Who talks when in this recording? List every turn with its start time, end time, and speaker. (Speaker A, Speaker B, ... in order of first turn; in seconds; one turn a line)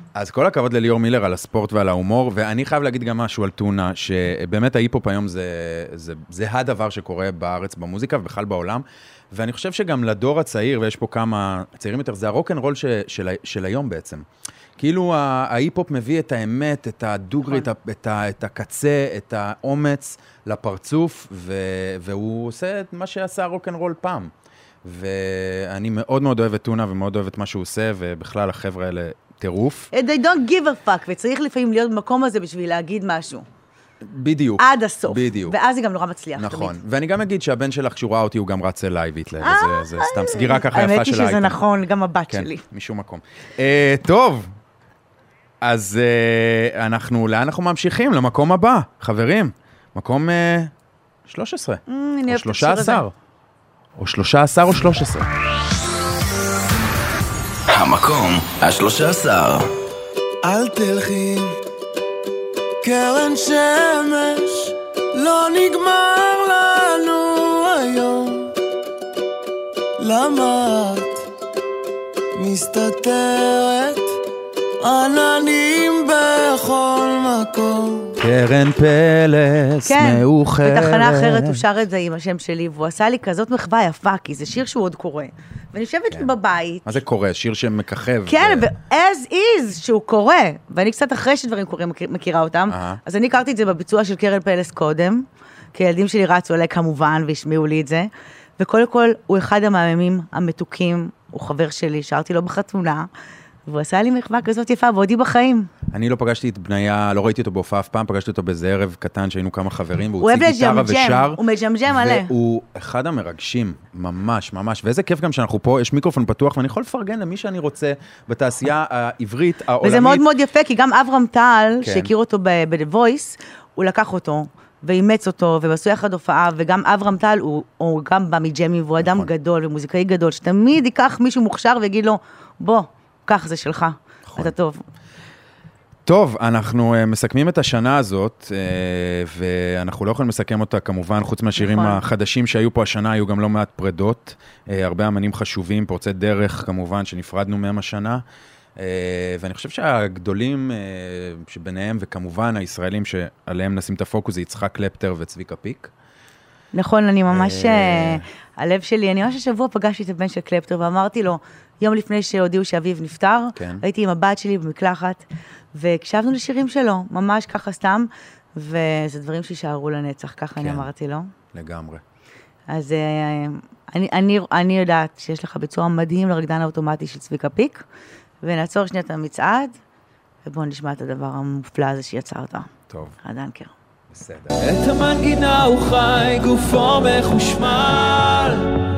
Speaker A: 0.1-14.2
Speaker A: 14.8-24.3
Speaker A: 24.8-29.9
Speaker B: 29.9-33.4
Speaker A: 34.0-35.5
Speaker B: 34.6-36.7
Speaker A: 36.4-41.6
Speaker B: 39.4-42.6
Speaker A: 42.3-44.5
Speaker A: 45.6-50.7
Speaker A: 51.2-53.1
Speaker B: 51.9-53.0
Speaker A: 54.0-55.3
Speaker C: 57.7-59.7
Speaker D: 60.4-61.5
Speaker D: 62.8-68.5
Speaker D: 70.0-71.2
Speaker D: 72.3-74.1
Speaker D: 74.8-78.2
Speaker A: 78.2-81.6
Speaker B: 79.9-87.0
Speaker A: 86.8-88.7
Speaker B: 88.3-103.1
Speaker A: 92.7-93.0
Speaker B: 103.7-105.7
Speaker A: 105.9-120.2
Speaker B: 110.2-112.3
Speaker B: 119.8-134.8
Speaker A: 121.8-122.1
Speaker A: 129.0-129.3
Speaker A: 134.2-134.5
Speaker A: 136.1-148.2
Speaker B: 141.6-142.0
Speaker A: 148.8-155.9
Speaker B: 156.7-171.3
Speaker A: 157.3-158.2
Speaker A: 163.5-163.8
Speaker A: 170.6-170.9
Speaker A: 171.5-172.0
Speaker B: 172.7-177.8
Speaker B: 178.4-179.8
Speaker B: 180.4-182.7
Speaker A: 182.9-183.2
Speaker B: 183.2-183.7
Speaker A: 184.1-184.6
Speaker E: 184.6-188.7